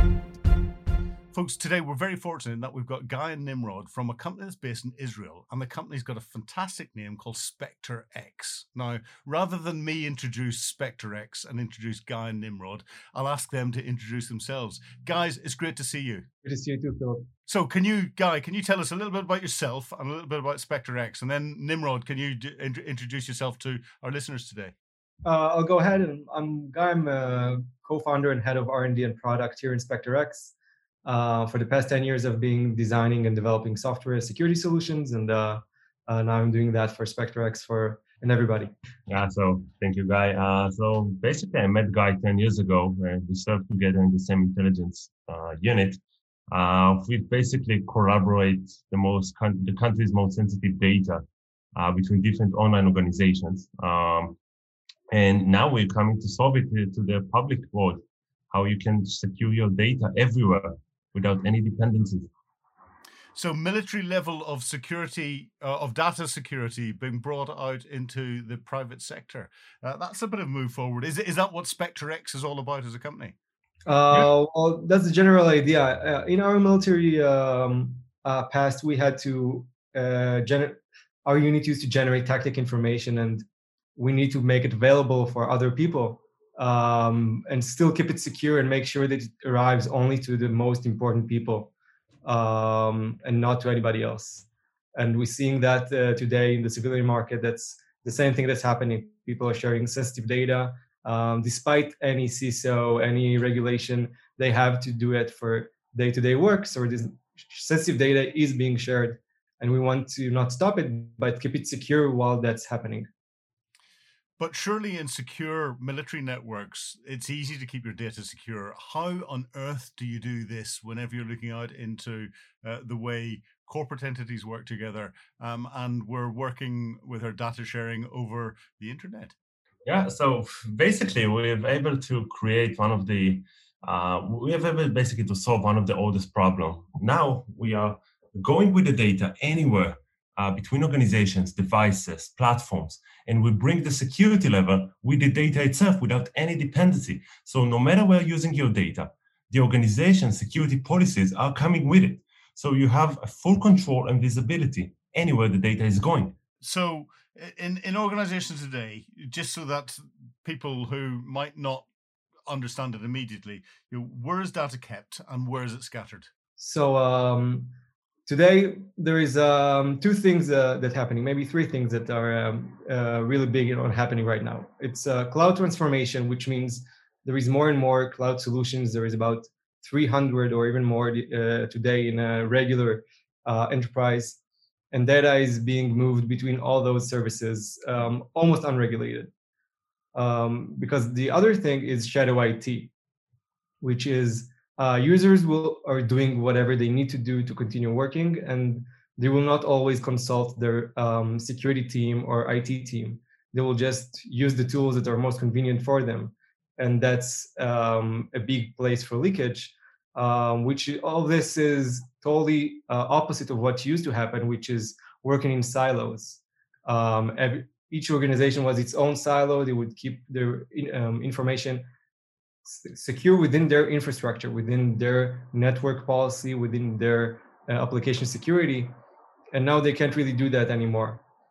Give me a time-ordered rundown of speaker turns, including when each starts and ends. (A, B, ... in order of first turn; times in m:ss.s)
0:01.3-0:16.2 A
0:16.4-0:17.2 B
0:17.5-0:24.7 A
0:25.2-0:30.5 B
0:31.0-0:38.7 B
0:39.1-0:46.0 C
0:46.5-0:51.2 C
0:51.8-0:54.4 C
0:55.1-1:02.3 C
1:03.4-1:13.4 A
1:13.8-1:23.4 B
1:24.0-1:31.7 B
1:32.2-1:53.1 B
1:54.4-2:09.4 A
2:09.9-2:36.4 C
2:36.6-2:41.9 A
2:42.5-2:46.3 A
2:46.6-2:47.7 B
2:48.3-3:04.4 B
3:04.9-3:09.3 B
3:10.2-3:12.9 B
3:13.8-3:41.8 B
3:42.6-3:48.9 B
3:49.5-3:51.2 B